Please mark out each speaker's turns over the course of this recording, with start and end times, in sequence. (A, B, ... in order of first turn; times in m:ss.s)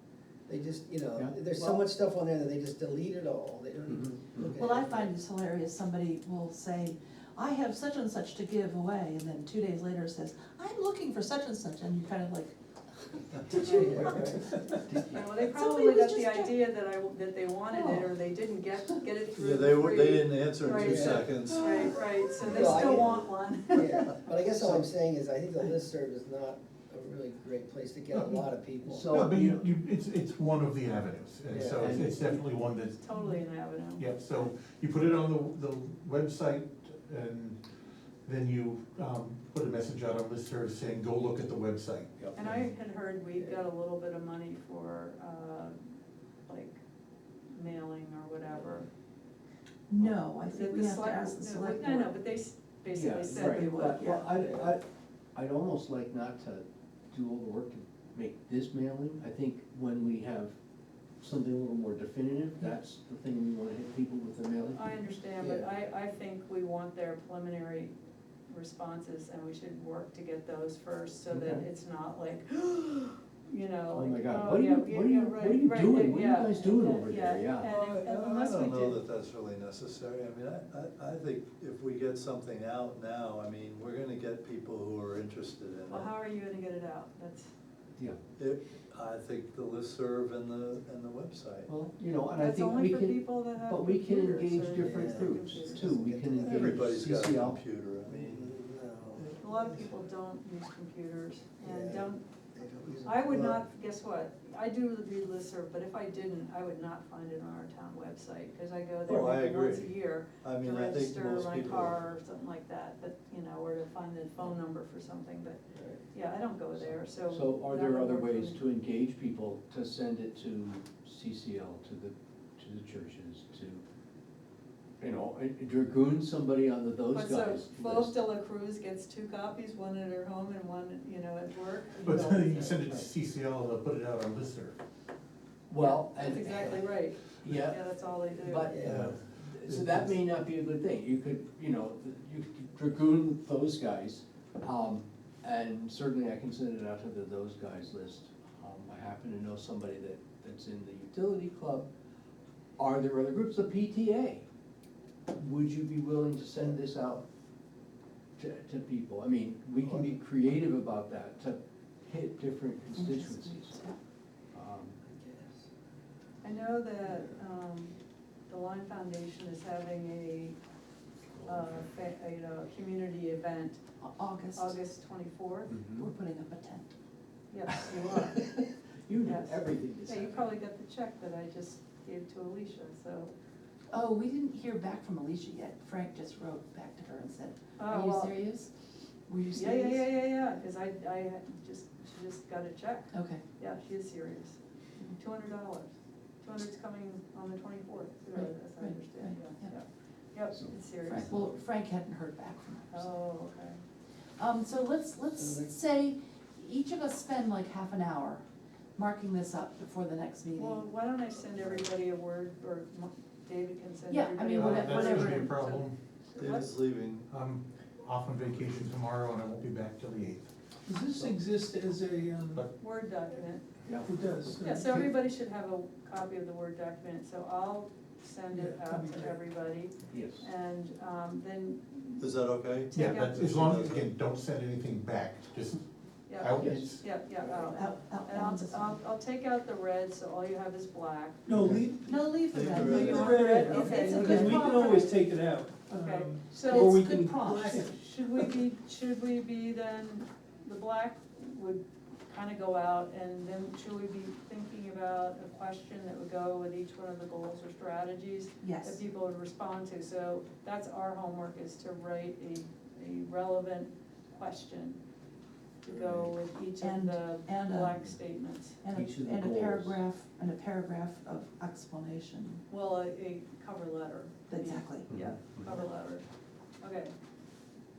0:00.5-0:05.1 A
0:01.2-0:01.8 B
0:03.9-0:04.5 B
0:04.6-0:14.6 C
0:13.6-0:14.1 D
0:13.7-0:14.5 A
0:14.9-0:15.3 B
0:15.1-0:24.0 D
0:15.3-0:16.6 C
0:17.7-0:18.1 C
0:19.4-0:21.9 E
0:20.7-0:21.3 A
0:21.5-0:21.9 C
0:22.4-0:29.2 A
0:22.4-0:22.9 C
0:28.1-0:33.0 F
0:28.8-0:29.7 B
0:31.5-0:31.9 A
0:31.7-0:32.4 B
0:33.0-0:34.0 D
0:34.0-0:37.6 F
0:38.2-0:42.7 F
0:42.3-0:45.8 D
0:43.3-0:43.6 A
0:46.5-0:46.8 D
0:47.5-0:48.9 D
0:49.9-0:52.1 C
0:50.5-0:54.2 D
0:52.9-1:00.5 B
0:53.3-0:54.2 C
1:01.2-1:05.0 B
1:04.7-1:07.9 D
1:05.4-1:05.7 A
1:08.5-1:19.0 D
1:11.3-1:11.6 B
1:13.9-1:17.7 B
1:17.7-1:26.1 E
1:25.9-1:27.5 D
1:28.4-1:31.6 E
1:31.6-1:37.6 B
1:32.4-1:35.9 D
1:34.7-1:36.8 A
1:36.5-1:38.5 E
1:38.0-1:39.9 A
1:39.4-1:42.2 D
1:41.6-1:43.6 A
1:43.0-1:55.6 D
1:49.1-1:49.9 E
1:50.4-1:52.0 E
1:55.7-1:56.0 A
1:56.1-1:58.6 D
1:56.8-2:03.8 B
2:05.0-2:08.2 B
2:07.1-2:12.9 D
2:12.0-2:14.8 F
2:15.7-2:16.9 B
2:15.8-2:18.8 D
2:17.4-2:31.9 B
2:18.7-2:19.1 A
2:18.8-2:20.1 F
2:32.8-2:34.4 B
2:35.4-2:37.2 B
2:38.4-2:43.8 B
2:39.8-2:40.2 A
2:42.9-2:44.0 C
2:44.5-2:45.0 B
2:45.0-2:45.7 A
2:46.4-2:47.9 D
2:48.5-2:50.6 D
2:51.3-2:51.9 B
2:51.4-2:53.8 D
2:54.0-2:54.8 C
2:54.5-2:55.7 D
2:55.7-2:56.1 B
2:55.9-2:56.9 C
2:57.5-2:58.6 D
2:59.1-3:00.5 B
2:59.2-3:03.3 D
3:03.9-3:08.7 C
3:07.8-3:08.4 D
3:09.3-3:10.0 C
3:09.5-3:14.6 D
3:13.1-3:13.4 C
3:15.2-3:21.5 D
3:18.3-3:19.7 C
3:21.0-3:23.1 C
3:22.9-3:23.8 D
3:24.4-3:28.4 C
3:25.4-3:25.7 A
3:29.0-3:30.8 C
3:30.6-3:36.7 D
3:34.1-3:35.5 C
3:34.6-3:36.0 F
3:36.4-3:37.3 E
3:37.3-3:40.5 F
3:40.8-3:42.7 G
3:41.1-3:41.4 B
3:42.8-3:43.6 D
3:43.8-3:44.1 B
3:44.0-3:45.1 G
3:44.6-3:52.3 D
3:48.5-3:49.4 G
3:50.1-3:50.4 B
3:52.2-3:54.1 E
3:52.9-3:53.4 D
3:52.9-3:55.8 F
3:56.3-4:01.4 D
3:56.3-3:57.1 F
3:56.6-3:56.8 B
3:57.5-3:59.0 C
4:01.4-4:02.2 G
4:01.6-4:01.8 F
4:02.0-4:05.1 C
4:02.5-4:03.0 E
4:02.8-4:08.5 G
4:02.9-4:05.1 D
4:05.9-4:07.0 D
4:06.5-4:07.8 C
4:07.8-4:25.0 D
4:18.6-4:19.0 C
4:25.8-4:28.8 D
4:25.9-4:26.3 B
4:26.8-4:28.0 C
4:28.8-4:32.6 C
4:28.9-4:30.0 B
4:32.7-4:36.2 D
4:34.5-4:35.1 C
4:35.1-4:35.7 B
4:36.8-4:37.1 D